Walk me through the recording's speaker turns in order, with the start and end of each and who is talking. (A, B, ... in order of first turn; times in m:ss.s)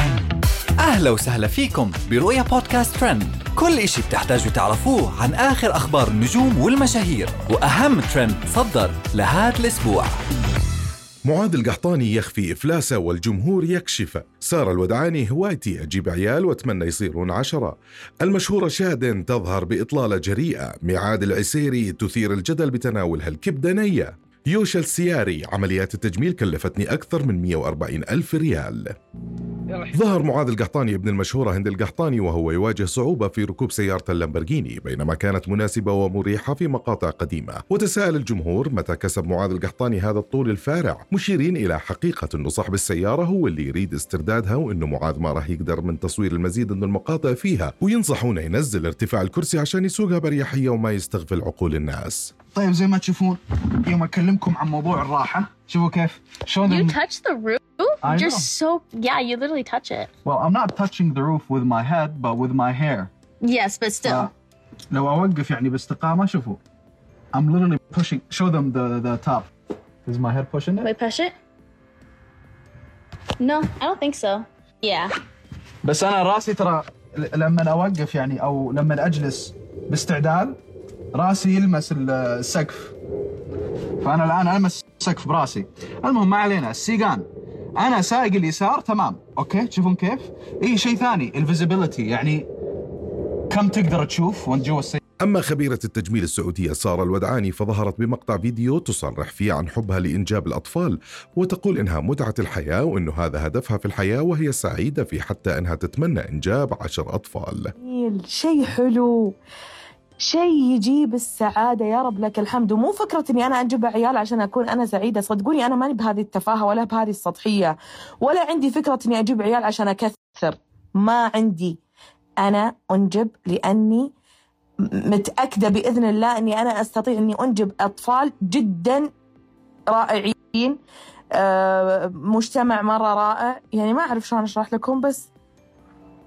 0:00.8-0:10.2 A
0:11.3-0:28.9 B
0:29.9-0:52.3 B
0:52.5-0:57.0 C
0:56.7-1:00.1 D
0:58.0-0:58.5 C
1:00.2-1:03.1 C
1:03.4-1:04.2 D
1:04.0-1:04.3 C
1:04.9-1:06.6 C
1:07.3-1:09.5 C
1:10.0-1:10.9 C
1:10.8-1:11.3 D
1:13.4-1:15.1 D
1:15.8-1:20.6 C
1:21.1-1:22.9 C
1:24.0-1:32.5 C
1:33.5-1:35.0 C
1:35.2-1:47.7 B
1:47.8-1:49.3 E
1:50.2-2:01.8 E
2:02.4-2:04.1 E
2:05.1-2:09.1 E
2:09.9-2:10.8 E
2:11.4-2:15.3 E